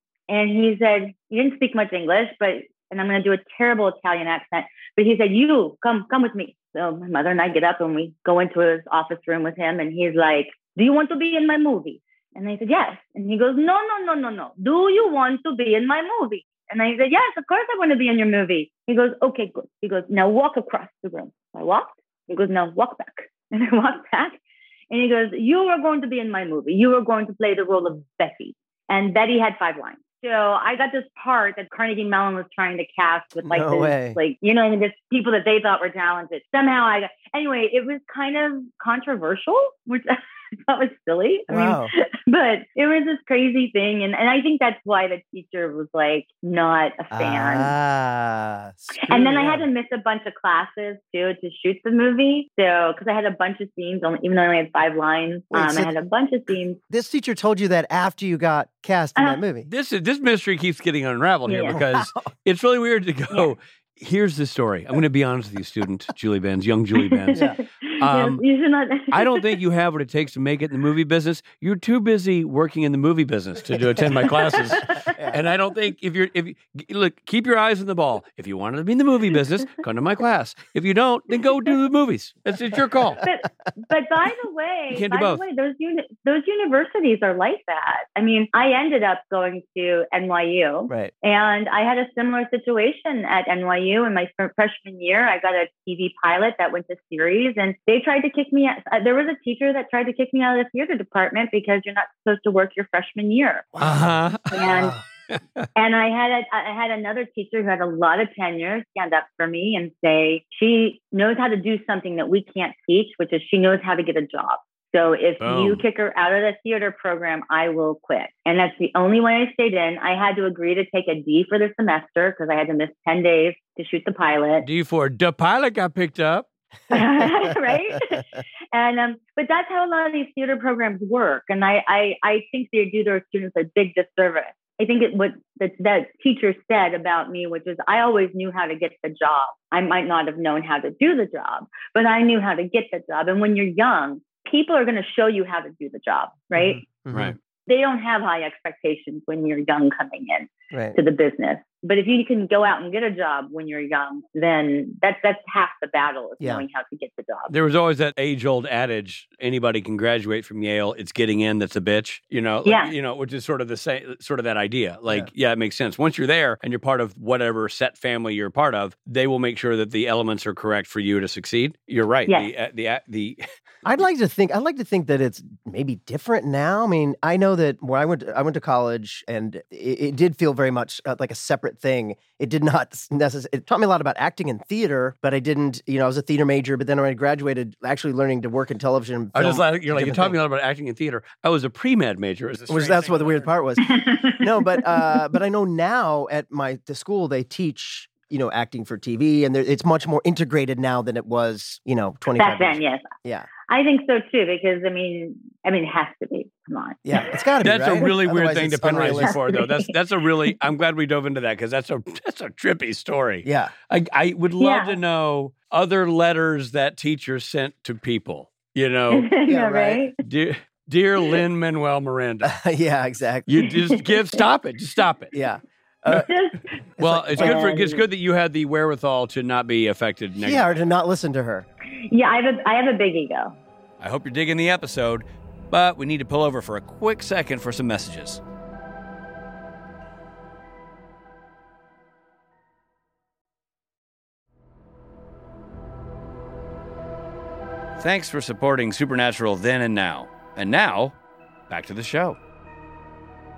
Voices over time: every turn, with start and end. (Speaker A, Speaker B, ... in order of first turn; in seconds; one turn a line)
Speaker A: 0.3-40.1
Speaker B: 33.5-34.2
Speaker A: 40.7-47.7
Speaker B: 41.5-41.9
Speaker B: 47.1-49.6
Speaker A: 49.0-56.8
Speaker B: 55.5-55.9
Speaker B: 56.9-59.7
Speaker C: 59.7-67.4
Speaker A: 61.5-61.8
Speaker B: 61.7-62.2
Speaker A: 67.1-69.5
Speaker C: 68.0-68.4
Speaker C: 69.1-83.2
Speaker A: 74.5-75.2
Speaker B: 75.1-75.4
Speaker A: 83.2-103.7
Speaker C: 84.9-85.4
Speaker B: 103.8-105.0
Speaker C: 103.8-104.7
Speaker A: 104.5-105.0
Speaker C: 105.3-105.7
Speaker A: 105.8-124.7
Speaker C: 115.4-115.8
Speaker C: 124.6-126.5
Speaker A: 126.9-146.8
Speaker B: 146.6-147.3
Speaker C: 147.1-147.4
Speaker A: 147.7-157.5
Speaker B: 150.7-151.0
Speaker C: 157.5-173.4
Speaker A: 162.7-162.9
Speaker B: 173.8-190.4
Speaker C: 189.3-193.5
Speaker B: 192.7-203.5
Speaker A: 193.8-195.2
Speaker A: 202.4-203.1
Speaker A: 203.7-207.4
Speaker B: 207.0-209.4
Speaker C: 207.6-219.3
Speaker A: 209.1-209.9
Speaker B: 213.4-213.7
Speaker A: 214.6-215.0
Speaker A: 219.1-220.2
Speaker B: 219.5-220.0
Speaker C: 220.2-222.6
Speaker B: 222.4-223.5
Speaker C: 223.5-225.3
Speaker A: 223.7-224.4
Speaker B: 225.3-226.3
Speaker A: 226.1-226.7
Speaker B: 227.0-227.7
Speaker C: 227.0-230.8
Speaker A: 227.3-228.0
Speaker B: 230.4-231.7
Speaker A: 231.9-233.6
Speaker C: 234.0-238.4
Speaker C: 248.0-251.2
Speaker C: 251.7-252.4